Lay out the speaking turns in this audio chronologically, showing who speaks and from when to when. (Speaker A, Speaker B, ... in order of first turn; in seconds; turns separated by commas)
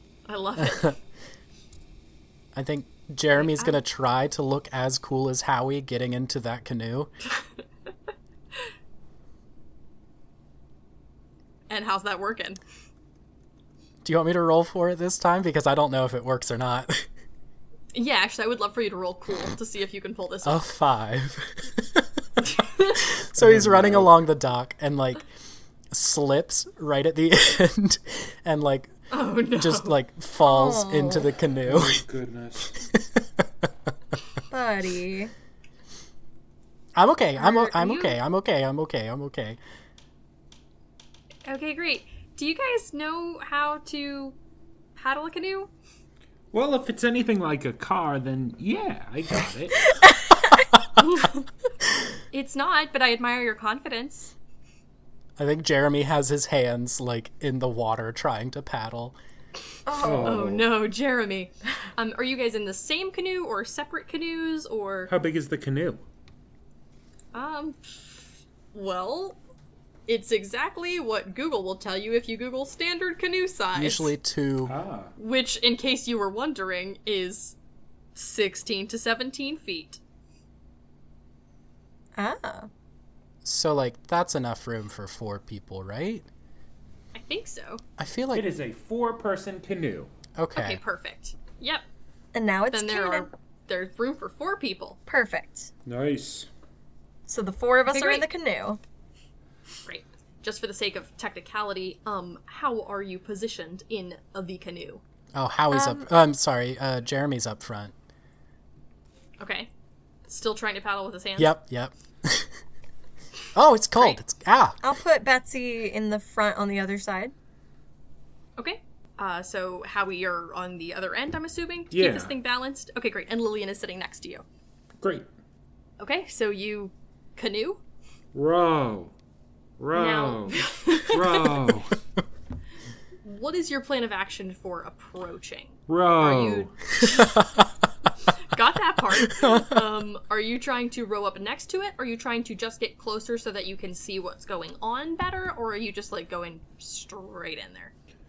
Speaker A: 0.2-0.9, Speaker B: 0.6-0.9, Speaker B: 2.5-7.1, Speaker A: 3.4-3.8, Speaker A: 11.7-12.6, Speaker B: 14.0-17.1, Speaker A: 17.9-20.6, Speaker B: 20.4-22.4, Speaker A: 22.5-23.0, Speaker B: 23.2-25.2, Speaker C: 23.4-24.1, Speaker B: 25.9-28.9, Speaker A: 29.1-29.9, Speaker B: 29.6-32.0, Speaker D: 30.4-31.3, Speaker C: 31.6-32.8, Speaker B: 32.7-33.7, Speaker D: 34.5-35.3, Speaker B: 36.9-39.6, Speaker A: 37.4-38.1, Speaker A: 41.5-44.4, Speaker A: 45.0-45.7, Speaker C: 46.5-50.0, Speaker D: 50.0-50.7, Speaker A: 51.0-51.5, Speaker A: 52.3-54.3, Speaker B: 55.4-59.2, Speaker D: 59.9-60.4, Speaker C: 60.0-60.7, Speaker A: 60.1-65.1, Speaker C: 65.1-66.0, Speaker A: 67.3-69.4, Speaker A: 70.1-74.1, Speaker B: 73.7-74.7, Speaker C: 74.7-75.1, Speaker A: 75.2-77.5, Speaker A: 78.1-80.0, Speaker D: 82.2-82.7, Speaker B: 83.4-86.2, Speaker A: 87.1-87.8, Speaker B: 88.0-88.5, Speaker C: 88.3-90.1, Speaker B: 90.3-90.8, Speaker A: 90.5-91.8, Speaker D: 92.3-93.3, Speaker A: 92.7-95.0, Speaker D: 95.1-95.7, Speaker C: 95.8-96.5, Speaker D: 97.3-98.8, Speaker A: 97.9-98.3, Speaker A: 99.8-105.0, Speaker B: 105.3-107.9, Speaker D: 105.7-106.1, Speaker A: 109.4-109.7, Speaker A: 110.3-111.5, Speaker B: 111.4-112.5, Speaker B: 113.5-114.8, Speaker D: 114.8-117.3, Speaker A: 118.6-124.4, Speaker C: 121.9-122.3, Speaker C: 125.0-125.3, Speaker A: 126.0-127.8, Speaker C: 128.3-129.1, Speaker C: 129.8-131.9, Speaker A: 129.9-131.5, Speaker A: 133.2-137.4, Speaker C: 135.9-136.7, Speaker B: 137.0-137.6, Speaker A: 138.4-147.9, Speaker B: 139.3-139.7